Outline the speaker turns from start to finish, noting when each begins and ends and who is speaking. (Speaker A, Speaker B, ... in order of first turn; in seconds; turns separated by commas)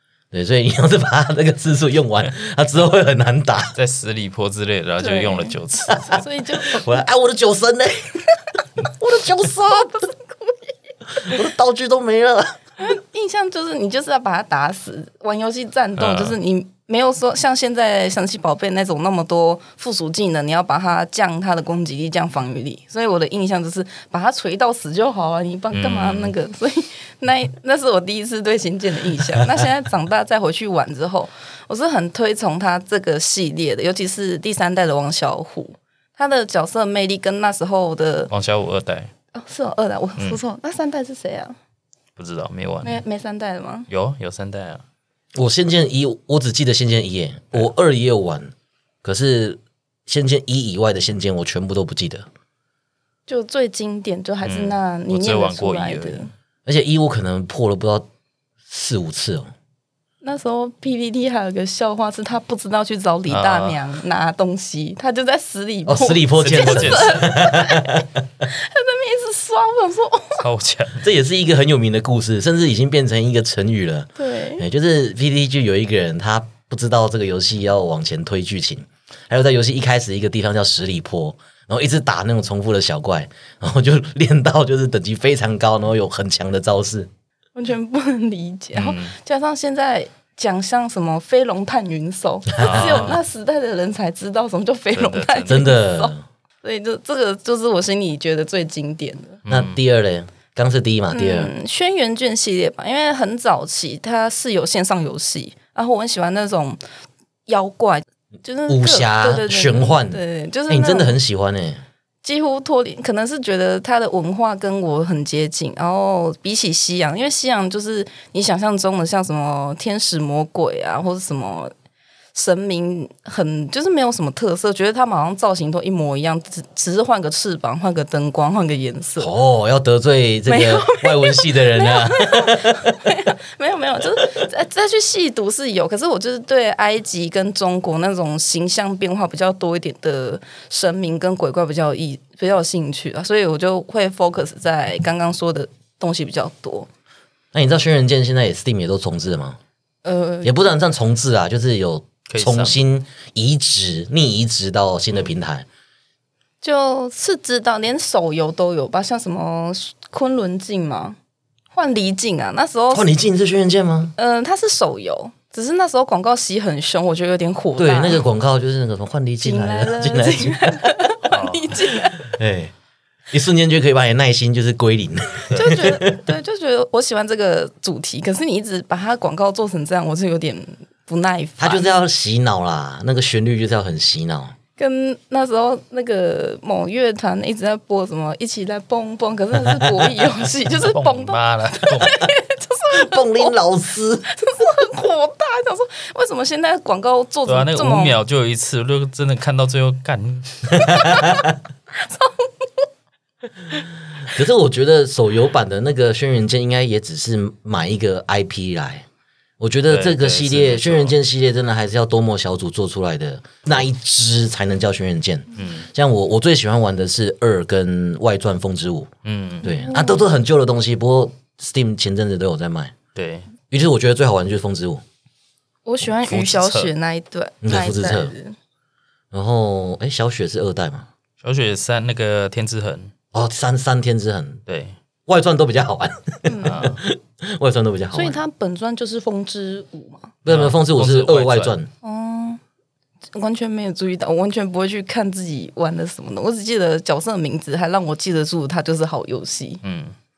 Speaker A: 0.3-3.8, Speaker B: 3.8-6.2, Speaker C: 5.0-7.0, Speaker A: 5.9-8.2, Speaker A: 8.8-9.9, Speaker C: 9.6-10.6, Speaker A: 11.2-12.6, Speaker C: 12.8-38.3, Speaker B: 16.0-16.4, Speaker B: 25.7-26.3, Speaker B: 38.3-39.1, Speaker C: 39.3-41.6, Speaker B: 42.2-43.0, Speaker C: 42.8-43.9, Speaker B: 43.9-44.8, Speaker A: 45.4-48.5, Speaker A: 49.0-52.3, Speaker C: 53.3-56.3, Speaker B: 54.4-56.3, Speaker A: 56.7-58.1, Speaker A: 58.7-59.5, Speaker C: 60.2-70.4, Speaker B: 63.3-63.8, Speaker A: 65.9-68.5, Speaker B: 66.4-67.3, Speaker B: 70.4-71.1, Speaker A: 71.0-87.1, Speaker C: 74.2-74.7, Speaker C: 87.6-99.4, Speaker B: 88.8-89.2, Speaker B: 92.6-93.2, Speaker A: 92.6-93.2, Speaker B: 94.9-95.7, Speaker A: 95.5-96.2, Speaker B: 99.5-99.8, Speaker A: 99.5-101.5, Speaker C: 101.1-106.8, Speaker C: 107.5-111.2, Speaker A: 108.7-111.8, Speaker C: 112.2-121.7, Speaker C: 122.3-129.3, Speaker A: 129.2-133.0, Speaker C: 130.5-146.9, Speaker A: 147.5-149.6, Speaker C: 150.0-150.6, Speaker A: 150.4-155.7, Speaker B: 152.3-152.8, Speaker C: 156.6-161.2, Speaker C: 161.7-163.1, Speaker A: 162.9-164.1, Speaker C: 164.2-168.3, Speaker A: 167.8-171.0, Speaker C: 169.4-172.3, Speaker B: 171.3-171.8, Speaker A: 172.2-172.7, Speaker A: 173.3-176.2, Speaker B: 175.5-175.8, Speaker C: 175.5-182.0, Speaker A: 181.6-184.6, Speaker C: 184.8-193.6, Speaker A: 189.6-190.2, Speaker B: 190.8-192.2, Speaker A: 192.9-194.3, Speaker C: 194.3-198.2, Speaker B: 197.5-200.9, Speaker A: 200.7-201.5, Speaker C: 200.8-201.4, Speaker C: 201.9-202.9, Speaker A: 204.2-209.1, Speaker A: 209.6-219.1, Speaker B: 209.9-211.2, Speaker B: 215.6-215.9, Speaker B: 219.2-219.7, Speaker A: 219.6-222.9, Speaker C: 219.6-220.2, Speaker B: 223.2-223.5, Speaker A: 223.7-225.0, Speaker C: 225.9-228.6, Speaker B: 226.2-226.9, Speaker A: 227.6-228.3, Speaker A: 229.3-231.1, Speaker B: 231.4-233.1, Speaker A: 233.3-234.6, Speaker B: 234.7-235.0, Speaker A: 235.3-238.4, Speaker C: 236.4-236.8, Speaker B: 236.6-237.0, Speaker C: 238.1-240.4, Speaker A: 240.4-241.9, Speaker B: 240.5-241.8, Speaker C: 242.0-242.6, Speaker C: 243.3-249.8, Speaker B: 249.8-250.2